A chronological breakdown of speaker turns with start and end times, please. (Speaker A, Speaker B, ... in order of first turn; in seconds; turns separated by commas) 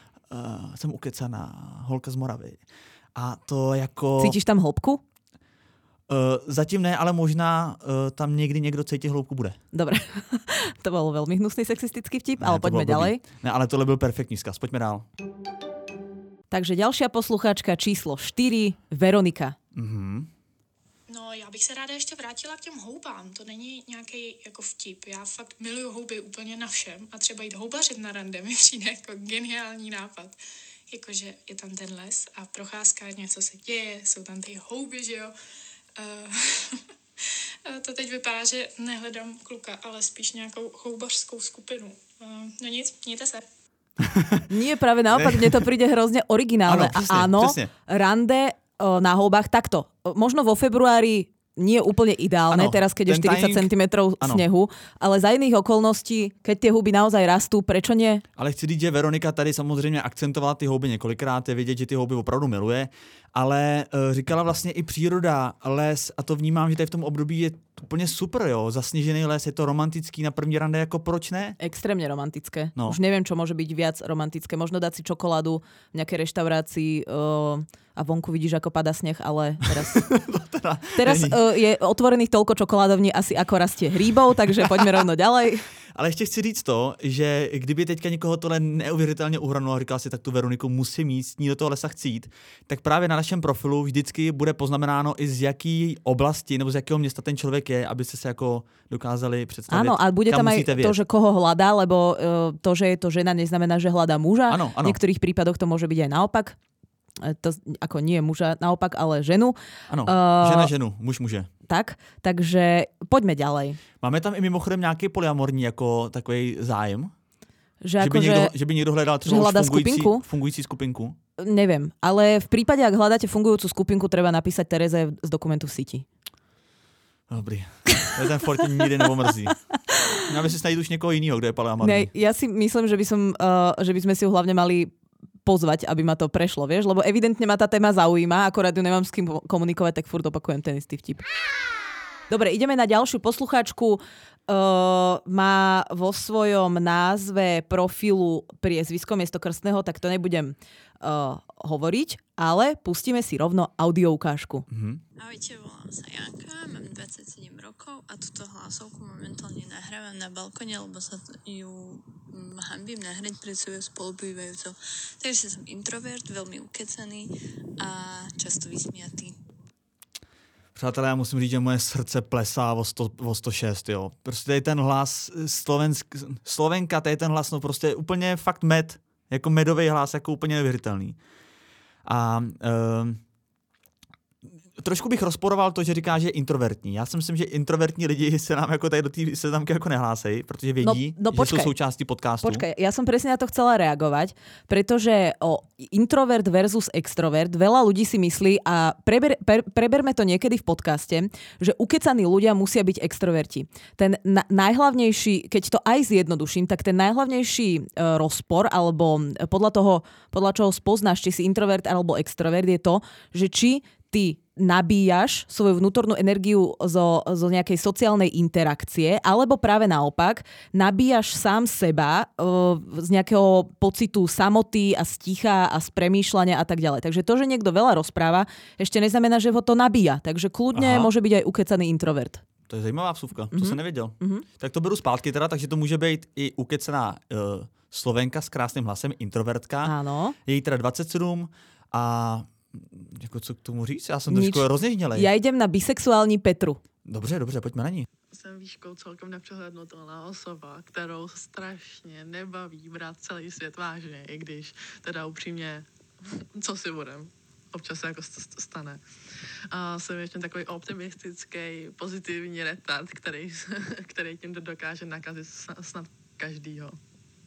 Speaker A: 0.3-2.6, Speaker A: 3.1-4.4, Speaker B: 4.2-5.0, Speaker A: 6.1-9.6, Speaker B: 9.7-13.2, Speaker A: 12.4-15.1, Speaker B: 16.5-19.6, Speaker A: 19.7-20.3, Speaker C: 21.1-30.4, Speaker C: 30.9-35.3, Speaker C: 36.0-36.8, Speaker C: 37.6-43.4, Speaker A: 44.0-44.5, Speaker B: 44.5-58.2, Speaker A: 45.1-45.6, Speaker A: 46.7-47.7, Speaker A: 52.5-53.7, Speaker A: 58.4-71.6, Speaker B: 71.6-80.0, Speaker A: 79.9-81.4, Speaker B: 81.0-85.6, Speaker A: 85.9-101.0, Speaker B: 99.7-106.5, Speaker A: 104.5-105.0, Speaker B: 107.2-110.7, Speaker A: 109.9-111.5, Speaker B: 111.7-113.8, Speaker A: 114.0-117.1, Speaker B: 117.8-118.5, Speaker A: 118.0-121.2, Speaker B: 119.2-120.2, Speaker B: 121.4-126.0, Speaker A: 127.3-129.6, Speaker B: 129.7-130.1, Speaker A: 130.2-132.1, Speaker B: 131.8-134.9, Speaker B: 135.4-141.2, Speaker B: 142.3-154.7, Speaker A: 154.7-155.0, Speaker D: 155.2-169.3, Speaker A: 170.8-181.2, Speaker A: 182.0-183.2, Speaker A: 184.8-192.6, Speaker B: 190.8-191.7, Speaker B: 192.4-232.4, Speaker A: 230.7-231.1, Speaker A: 232.7-239.9, Speaker B: 233.5-234.4, Speaker B: 239.8-240.3, Speaker A: 240.4-245.3, Speaker B: 244.3-246.8, Speaker A: 247.0-248.1, Speaker E: 248.3-259.0, Speaker E: 259.7-267.0